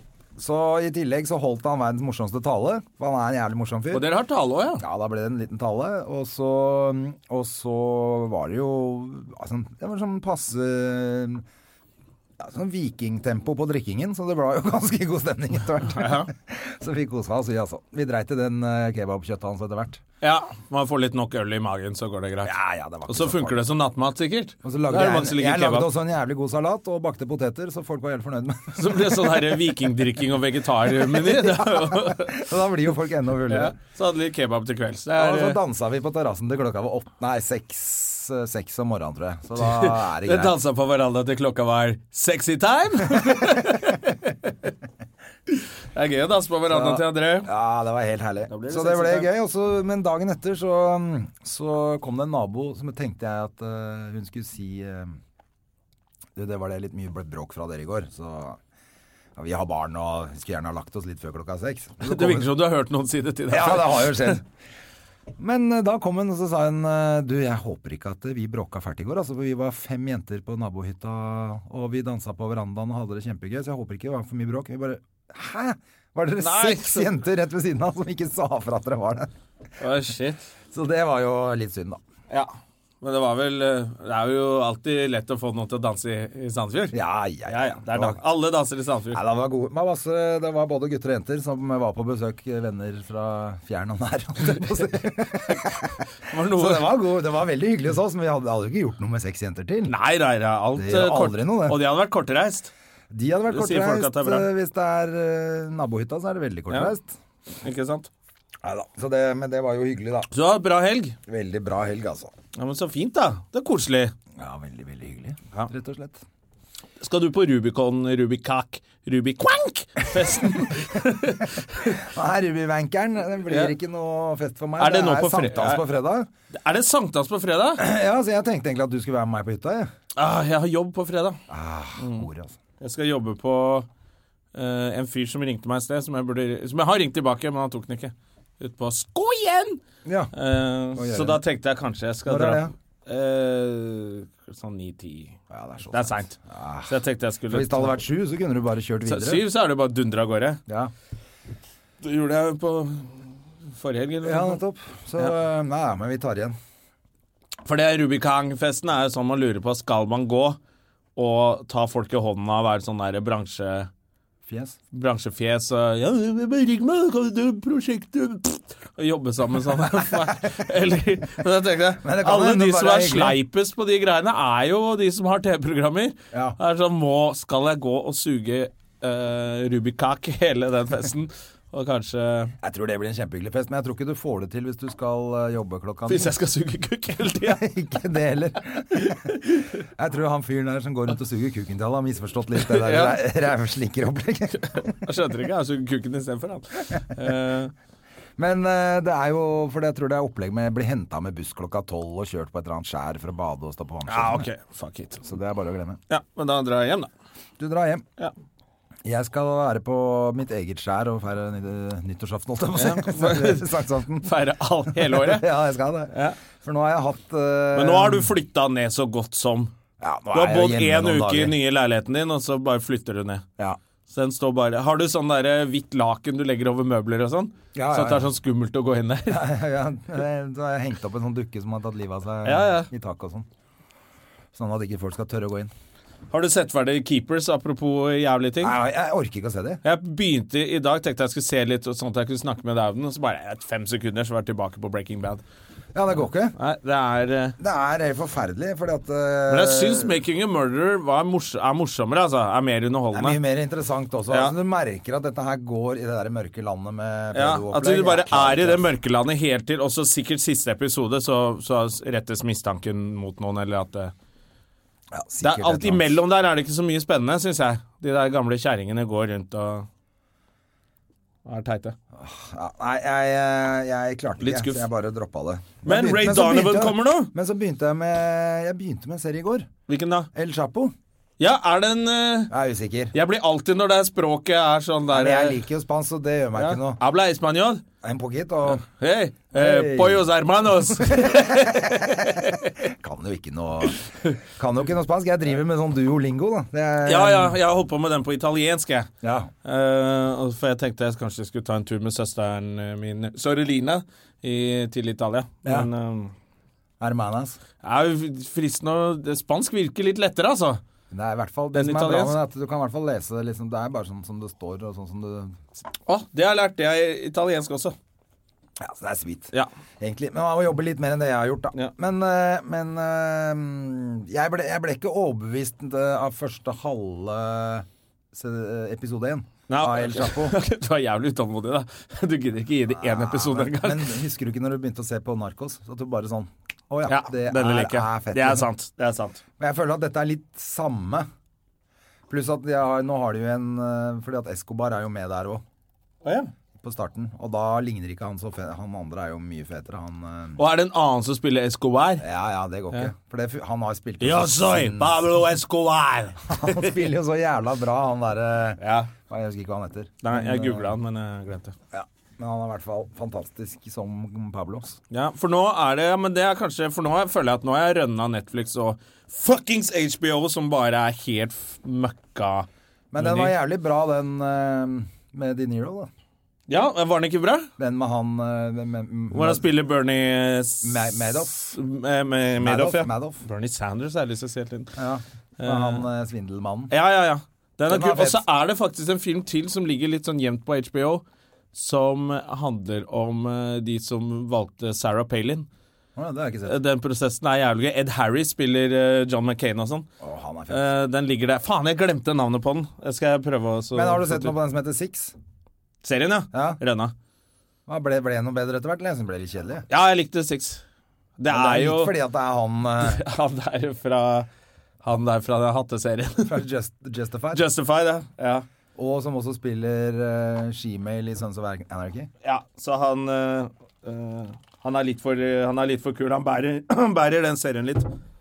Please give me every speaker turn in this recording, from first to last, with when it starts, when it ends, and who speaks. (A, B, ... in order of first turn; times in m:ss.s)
0:00.4-0:04.1 A
0:03.9-0:04.8 B
0:04.8-0:11.4 A
0:12.4-0:20.0 A
0:15.9-0:16.3 B
0:20.2-0:22.6 B
0:22.4-0:23.6 A
0:23.1-0:25.9 B
0:24.6-0:29.6 A
0:28.8-0:32.4 B
0:30.9-0:33.8 A
0:33.5-0:35.6 B
0:35.1-0:40.6 A
0:39.6-0:44.7 B
0:45.5-0:47.5 B
0:46.7-0:55.2 A
0:48.5-0:49.3 B
0:56.4-0:58.6 A
0:59.4-1:02.5 A
1:02.0-1:04.4 B
1:03.5-1:04.4 A
1:05.4-1:19.3 A
1:16.4-1:17.1 B
1:19.8-1:20.4 B
1:20.7-1:22.0 A
1:23.0-1:29.2 B
1:26.9-1:28.2 A
1:29.1-1:40.0 A
1:36.3-1:37.0 B
1:39.9-1:42.7 B
1:40.8-1:41.8 A
1:43.1-1:47.1 A
1:43.5-1:44.5 B
1:47.6-1:48.1 B
1:48.6-1:50.3 A
1:50.3-1:51.2 B
1:51.3-1:52.3 A
1:52.6-1:54.1 B
1:54.4-1:56.2 A
1:57.0-2:02.0 B
2:01.9-2:06.3 A
2:04.8-2:05.8 B
2:06.5-2:07.8 B
2:07.8-2:09.9 A
2:10.2-2:11.4 B
2:11.5-2:12.6 A
2:12.0-2:12.3 B
2:12.8-2:13.9 B
2:14.5-2:19.8 B
2:20.0-2:20.3 A
2:20.3-2:25.4 B
2:20.9-2:21.4 A
2:22.3-2:22.7 A
2:25.5-2:27.0 A
2:25.9-2:28.0 B
2:27.5-2:29.4 A
2:29.1-2:30.6 B
2:32.0-2:34.6 B
2:34.2-2:36.6 A
2:37.6-2:40.6 B
2:41.2-2:43.9 B
2:44.5-2:44.8 A
2:44.9-3:02.5 B
2:52.0-2:53.4 A
2:56.3-2:56.6 A
3:02.6-3:06.3 A
3:06.1-3:07.6 B
3:07.4-3:15.0 A
3:09.0-3:09.4 B
3:12.6-3:13.2 B
3:14.6-3:17.7 B
3:18.4-3:24.5 A
3:24.1-3:25.2 B
3:25.2-3:26.0 A
3:26.1-3:27.1 B
3:27.6-3:28.0 A
3:29.0-3:34.3 A
3:32.8-3:33.7 B
3:34.2-3:35.5 B
3:34.9-3:38.3 A
3:36.1-3:36.4 B
3:37.7-3:39.7 B
3:40.0-3:41.6 A
3:40.3-3:43.4 B
3:44.1-3:49.4 B
3:47.8-3:48.3 A
3:49.3-3:53.5 A
3:52.4-3:52.9 B
3:54.5-3:55.7 A
3:56.3-3:58.8 B
3:58.6-3:59.8 A
3:59.8-4:05.4 B
4:05.9-4:06.6 A
4:06.6-4:07.6 B
4:07.6-4:10.2 A
4:09.5-4:13.4 B
4:13.1-4:18.8 A
4:17.3-4:24.1 B
4:25.1-4:26.2 A
4:25.4-4:29.9 B
4:31.5-4:32.0 B
4:32.1-4:39.7 A
4:34.4-4:34.8 B
4:35.8-4:37.3 B
4:39.9-4:40.3 B
4:40.3-4:40.9 A
4:41.4-4:42.5 B
4:42.5-4:43.2 A
4:43.1-4:45.6 B
4:45.1-4:47.0 A
4:46.6-4:47.8 B
4:48.0-4:48.8 A
4:48.8-4:52.9 B
4:49.5-4:50.2 A
4:51.0-4:51.9 A
4:52.8-4:57.6 A
4:57.0-4:59.1 B
4:59.2-4:59.5 A
4:59.6-5:06.3 B
5:07.0-5:07.6 A
5:07.8-5:10.8 B
5:11.1-5:15.6 A
5:11.7-5:12.4 B
5:16.1-5:18.0 B
5:18.8-5:30.6 A
5:29.7-5:34.1 B
5:32.9-5:38.7 A
5:37.1-5:39.4 B
5:39.6-5:41.3 A
5:42.3-5:45.6 A
5:46.2-5:46.5 B
5:46.8-5:50.6 A
5:50.6-5:52.2 B
5:52.2-5:55.1 A
5:54.2-5:57.0 B
5:56.5-6:00.9 A
5:58.8-5:59.1 B
6:00.2-6:01.8 B
6:01.9-6:05.0 A
6:05.1-6:12.7 B
6:13.1-6:16.1 A
6:13.2-6:13.6 B
6:16.7-6:17.7 B
6:17.8-6:19.6 A
6:19.3-6:24.9 B
6:20.8-6:21.8 A
6:22.6-6:23.4 A
6:25.0-6:26.9 A
6:25.6-6:26.0 B
6:26.9-6:35.7 B
6:27.9-6:28.4 A
6:36.2-6:36.8 A
6:36.7-6:40.1 B
6:40.2-6:40.9 A
6:40.7-6:44.5 B
6:43.9-6:45.4 A
6:46.0-6:47.1 B
6:46.5-6:46.8 A
6:47.9-6:49.9 A
6:49.9-6:50.8 B
6:51.4-6:52.1 B
6:51.5-6:53.2 A
6:53.0-6:54.5 B
6:55.0-6:56.6 B
6:56.4-6:57.6 A
6:57.5-6:58.7 B
6:59.0-7:02.3 A
7:02.4-7:08.1 B